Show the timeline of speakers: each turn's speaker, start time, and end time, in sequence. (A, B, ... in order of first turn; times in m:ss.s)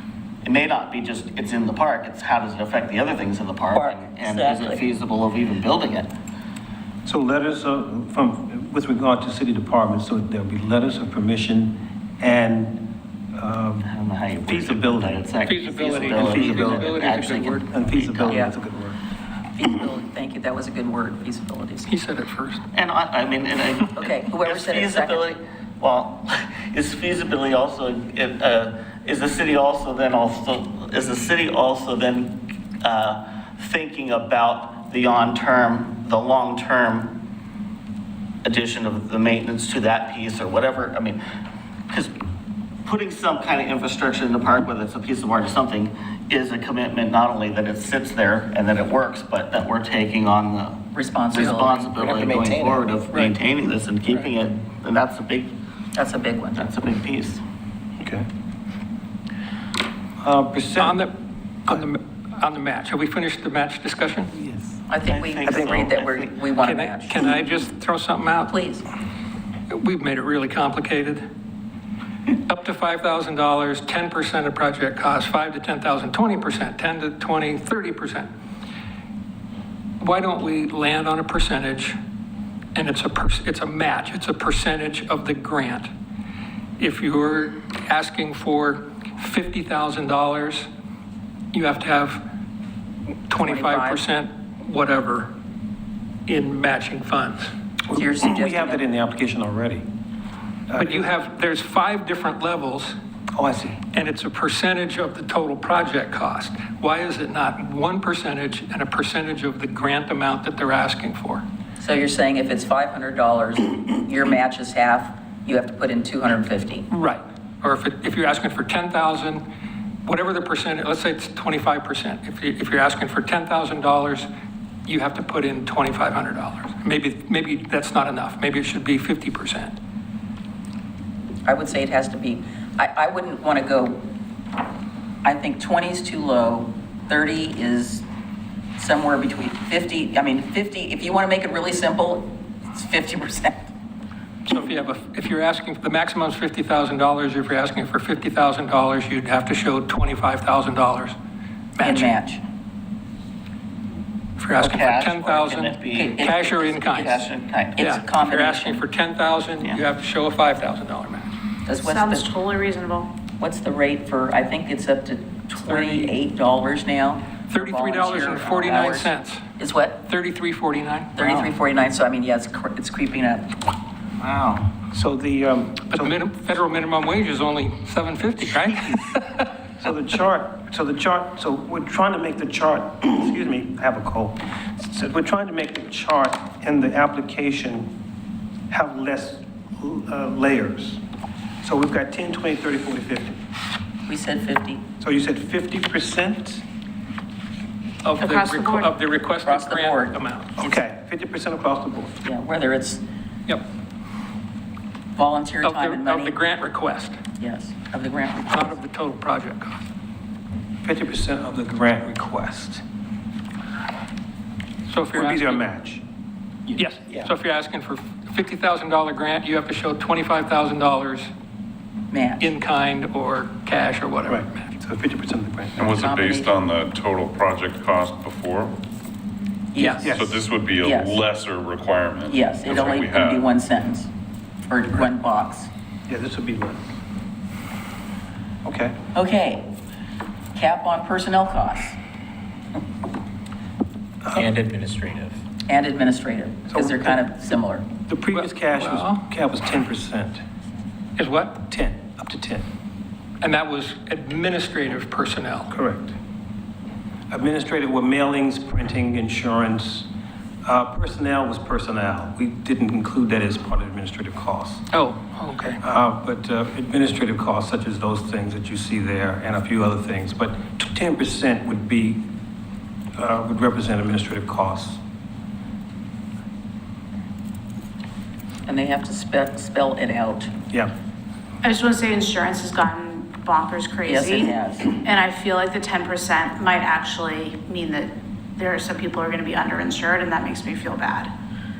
0:00.4-0:06.1 A
0:03.7-0:04.8 B
0:07.0-0:13.9 C
0:13.8-0:18.4 A
0:14.4-0:15.3 C
0:15.4-0:17.7 D
0:16.0-0:17.0 C
0:17.7-0:19.0 C
0:18.3-0:18.6 B
0:19.6-0:21.9 B
0:21.9-0:22.6 D
0:22.7-0:37.2 A
0:23.9-0:25.2 B
0:38.4-0:41.2 A
0:42.8-0:55.5 A
0:50.9-0:51.9 B
0:52.0-0:52.8 E
0:55.9-0:56.7 B
0:56.5-0:57.4 A
0:58.0-0:58.2 C
1:00.2-1:01.0 C
1:00.8-1:01.1 D
1:01.6-1:04.3 D
1:04.3-1:04.8 C
1:04.9-1:07.2 B
1:05.0-1:06.4 A
1:05.4-1:05.8 C
1:06.6-1:08.5 D
1:08.5-1:08.8 B
1:09.7-1:11.2 D
1:12.4-1:18.3 D
1:20.0-1:21.9 D
1:22.7-1:25.9 D
1:26.8-1:30.6 D
1:31.5-1:32.2 D
1:33.3-1:35.3 D
1:33.3-1:34.0 B
1:36.3-1:37.5 D
1:37.9-1:39.8 C
1:37.9-1:38.8 B
1:40.7-1:41.0 C
1:40.7-1:42.9 D
1:43.3-1:43.8 C
1:43.9-1:51.4 D
1:51.8-1:56.9 B
1:56.9-1:59.4 D
2:00.0-2:04.3 D
2:04.9-2:09.7 D
2:11.4-2:14.0 B
2:15.2-2:18.0 B
2:18.8-2:23.7 B
2:24.5-2:31.1 D
2:31.8-2:32.1 D
2:31.8-2:32.4 B
2:34.4-2:37.2 D
2:34.6-2:38.0 A
2:35.9-2:37.2 B
2:37.8-2:38.8 B
2:37.8-2:41.3 D
2:41.6-2:42.3 B
2:41.8-2:43.1 F
2:43.4-2:50.0 B
2:45.6-2:46.1 D
2:47.5-2:49.4 D
2:50.0-2:51.2 D
2:51.2-2:53.5 B
2:54.2-2:54.7 A
2:54.9-2:56.2 C
2:55.9-2:59.5 D
2:59.8-3:08.0 C
3:08.7-3:11.0 C
3:11.6-3:13.4 C
3:14.1-3:14.8 B
3:15.0-3:16.6 C
3:18.0-3:20.6 D
3:18.2-3:18.9 F
3:19.4-3:20.2 B
3:20.6-3:22.2 C
3:22.2-3:23.0 B
3:25.2-3:26.4 B
3:25.6-3:27.2 D
3:27.4-3:28.7 B
3:28.5-3:29.8 D
3:30.8-3:32.8 C
3:34.9-3:35.6 D
3:35.1-3:36.0 C
3:36.7-3:37.3 C
3:36.8-3:41.3 D
3:42.1-3:42.5 B
3:42.4-3:44.7 D
3:44.3-3:45.8 C
3:45.8-3:48.8 G
3:45.8-3:46.5 B
3:49.7-3:50.3 B
3:49.8-3:50.1 D
3:50.0-3:50.4 C
3:50.1-3:53.4 G
3:50.8-3:51.2 B
3:52.3-3:54.1 B
3:54.7-3:55.7 B
3:56.1-3:56.9 C
3:58.6-3:59.0 C
3:59.1-3:59.6 B
4:00.5-4:02.0 B
4:04.2-4:04.5 C
4:04.3-4:05.4 E
4:05.7-4:07.8 B
4:06.7-4:07.2 C
4:08.1-4:10.4 C
4:08.3-4:09.2 D
4:11.2-4:11.6 D
4:11.6-4:12.7 C
4:13.4-4:15.7 D
4:15.7-4:16.2 C
4:17.3-4:20.1 C
4:20.6-4:24.9 C
4:24.9-4:25.8 D
4:25.8-4:32.3 C
4:33.2-4:35.0 C
4:38.6-4:40.5 B
4:41.6-4:44.5 F
4:44.0-4:44.9 B
4:45.0-4:51.3 F